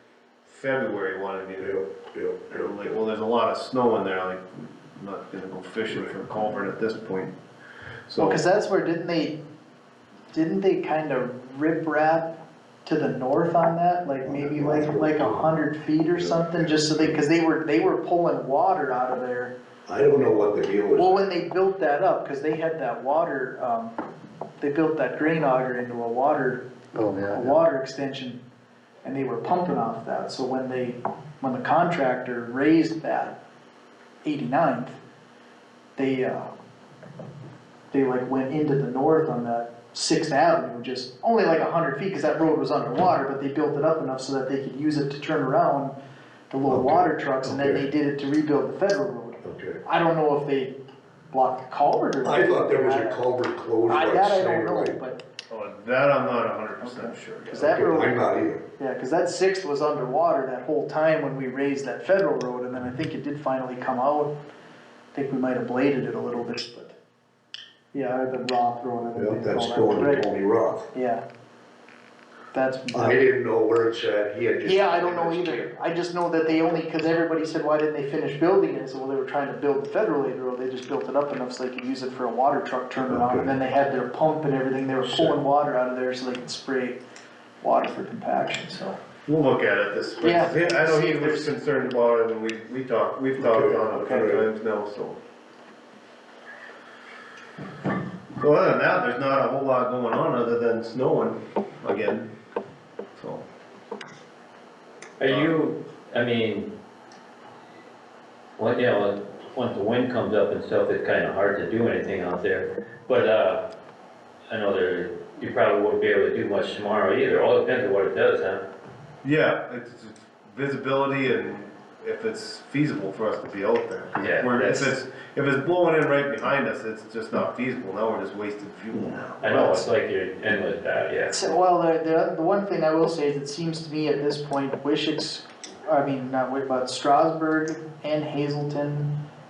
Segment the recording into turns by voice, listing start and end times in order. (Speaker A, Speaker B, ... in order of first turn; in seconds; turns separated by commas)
Speaker A: 0.5-1.8, Speaker B: 1.6-2.9, Speaker A: 2.5-7.3, Speaker A: 8.1-8.4, Speaker C: 8.2-9.4, Speaker C: 10.3-19.5, Speaker B: 14.2-17.2, Speaker B: 19.9-21.2, Speaker C: 21.0-23.9, Speaker C: 24.6-26.7, Speaker C: 27.3-28.4, Speaker C: 29.0-33.4, Speaker C: 34.2-35.0, Speaker C: 36.0-36.5, Speaker C: 37.9-45.9, Speaker C: 46.5-50.7, Speaker B: 46.7-47.9, Speaker B: 49.4-49.8, Speaker C: 51.3-53.2, Speaker B: 52.2-55.0, Speaker C: 53.9-55.2, Speaker A: 55.5-57.7, Speaker C: 56.8-58.2, Speaker B: 57.6-58.6, Speaker C: 58.8-64.3, Speaker C: 65.1-67.0, Speaker C: 67.9-70.3, Speaker B: 69.2-70.9, Speaker C: 70.9-71.2, Speaker C: 72.5-73.2, Speaker B: 72.9-75.7, Speaker C: 74.7-87.0, Speaker B: 83.1-83.5, Speaker B: 85.0-85.3, Speaker C: 87.6-89.0, Speaker A: 89.2-95.2, Speaker C: 90.2-91.5, Speaker B: 93.4-94.5, Speaker A: 98.4-102.3, Speaker A: 103.2-103.5, Speaker D: 105.2-106.7, Speaker A: 105.3-105.5, Speaker D: 108.6-113.7, Speaker D: 114.5-118.6, Speaker A: 119.2-129.9, Speaker D: 124.2-124.9, Speaker B: 128.9-129.2, Speaker D: 129.4-131.4, Speaker C: 131.3-139.2